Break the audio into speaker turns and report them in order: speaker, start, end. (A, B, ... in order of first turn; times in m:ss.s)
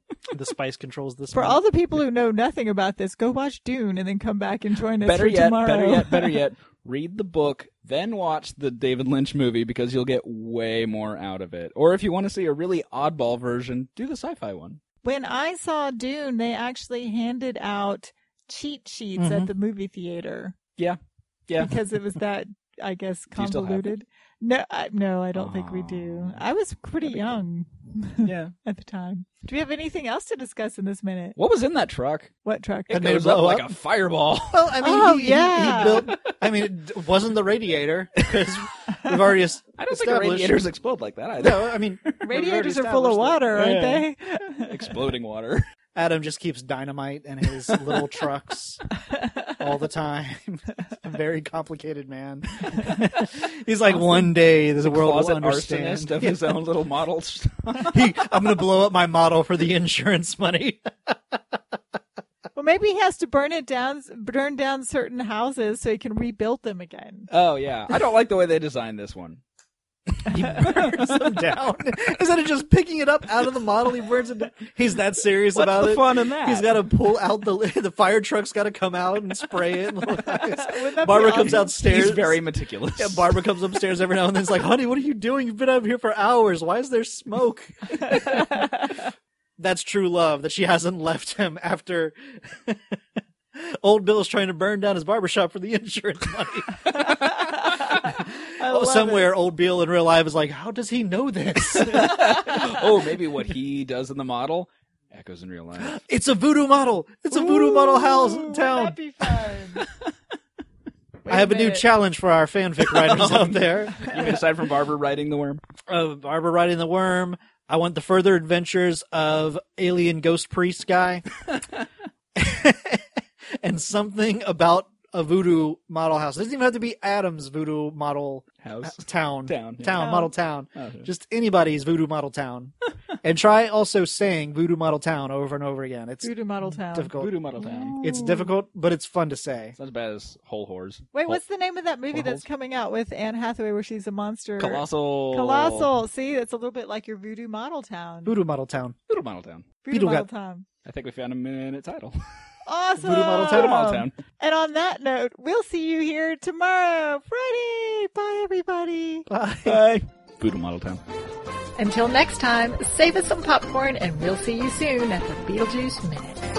0:00.3-0:01.6 A
0:01.3-0:06.4 B
0:05.0-0:14.8 C
0:15.0-0:20.6 B
0:19.2-0:19.5 A
0:20.8-0:21.8 C
0:21.6-0:31.4 B
0:23.3-0:23.9 C
0:25.3-0:26.5 C
0:27.0-0:27.4 C
0:28.2-0:28.5 C
0:31.4-0:32.3 C
0:32.4-0:33.0 B
0:32.9-0:34.8 C
0:32.9-0:33.7 A
0:34.5-0:40.7 A
0:34.8-0:36.1 B
0:35.6-0:36.2 C
0:39.8-0:42.2 C
0:41.4-0:43.6 A
0:42.2-0:44.8 B
0:43.5-0:44.1 C
0:44.6-0:45.6 C
0:46.0-0:48.8 A
0:47.5-0:48.1 C
0:49.1-0:49.6 B
0:49.6-0:56.5 A
0:53.9-0:54.2 B
0:54.8-0:58.1 C
0:57.8-1:01.4 A
1:02.6-1:07.3 B
1:07.3-1:09.4 C
1:10.2-1:11.4 C
1:10.3-1:22.4 A
1:15.5-1:16.7 C
1:20.4-1:21.7 B
1:21.1-1:23.5 C
1:23.0-1:28.8 A
1:28.1-1:28.7 B
1:29.6-1:33.0 A
1:33.6-1:36.8 A
1:36.9-1:37.3 C
1:37.0-1:39.3 B
1:38.0-1:42.6 A
1:41.7-1:46.0 C
1:45.8-1:49.0 A
1:47.3-1:49.8 B
1:51.2-1:51.9 B
1:51.3-1:54.2 A
1:52.8-1:55.6 C
1:55.9-2:01.2 A
2:01.5-2:01.9 C
2:02.4-2:03.0 A
2:03.6-2:17.4 A
2:08.6-2:10.1 C
2:10.0-2:10.3 B
2:10.8-2:11.1 C
2:16.2-2:18.5 B
2:17.2-2:18.0 C
2:18.0-2:19.8 A
2:19.8-2:21.4 C
2:21.1-2:28.4 B
2:22.1-2:22.4 C
2:24.6-2:25.9 C
2:28.2-2:29.0 A
2:29.1-2:29.7 C
2:29.8-2:30.7 B
2:29.9-2:30.3 A
2:30.8-2:32.2 C
2:32.7-2:39.3 B
2:33.0-2:33.8 A
2:33.5-2:34.2 C
2:39.3-2:39.8 A
2:39.7-2:41.0 C
2:41.8-2:46.4 B